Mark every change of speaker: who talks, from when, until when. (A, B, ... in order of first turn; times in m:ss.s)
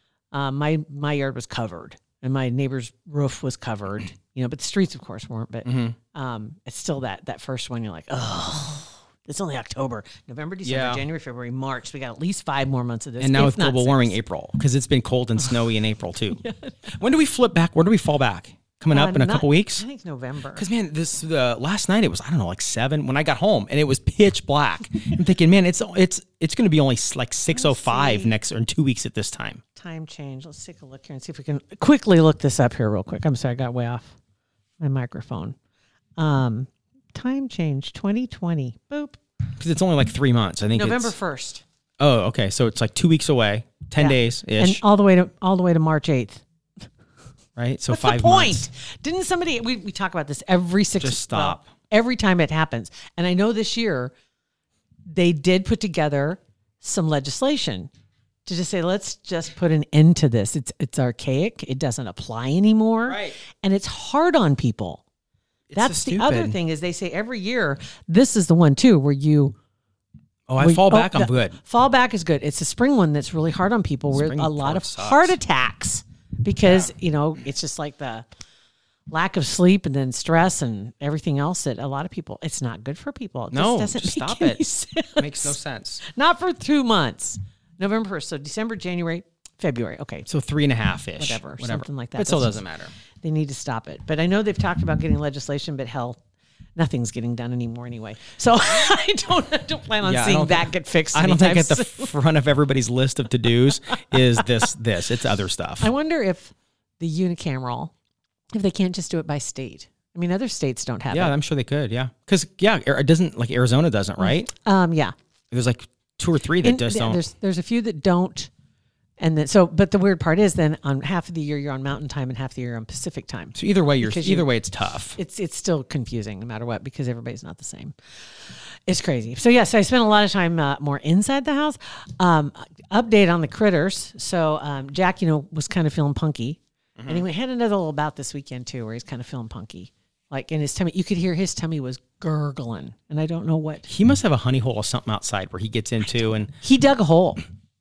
0:00.3-0:14.2 A
0:05.6-0:06.0 B
0:10.6-0:11.0 B
0:13.2-0:19.8 B
0:16.4-0:16.8 A
0:18.9-0:20.7 A
0:20.5-0:29.6 B
0:27.5-0:28.3 A
0:29.8-0:34.1 A
0:34.8-0:35.6 A
0:36.2-0:39.2 A
0:39.6-0:41.1 B
0:40.8-0:41.6 A
0:42.0-0:44.8 B
0:44.0-0:46.4 A
0:47.6-0:48.7 B
0:47.9-0:54.1 A
0:51.0-0:51.7 B
0:55.1-0:57.9 A
0:58.5-1:05.0 A
1:03.0-1:03.4 B
1:05.7-1:06.6 B
1:05.8-1:09.5 A
1:10.5-1:11.6 B
1:10.6-1:18.3 A
1:14.1-1:15.4 B
1:19.1-1:25.6 A
1:23.5-1:24.6 B
1:25.2-1:26.0 B
1:26.1-1:30.3 A
1:30.3-1:32.9 B
1:31.2-1:32.6 A
1:33.2-1:36.2 A
1:36.8-1:42.1 A
1:40.0-1:45.9 B
1:45.8-1:47.9 A
1:48.5-1:51.3 A
1:51.1-1:54.5 B
1:54.2-1:55.1 A
1:55.5-1:57.2 B
1:56.6-1:58.5 A
1:59.2-2:04.5 A
2:03.6-2:05.2 B
2:05.2-2:07.9 A
2:08.9-2:23.9 A
2:17.0-2:17.2 B
2:23.9-2:26.5 B
2:26.6-2:27.4 A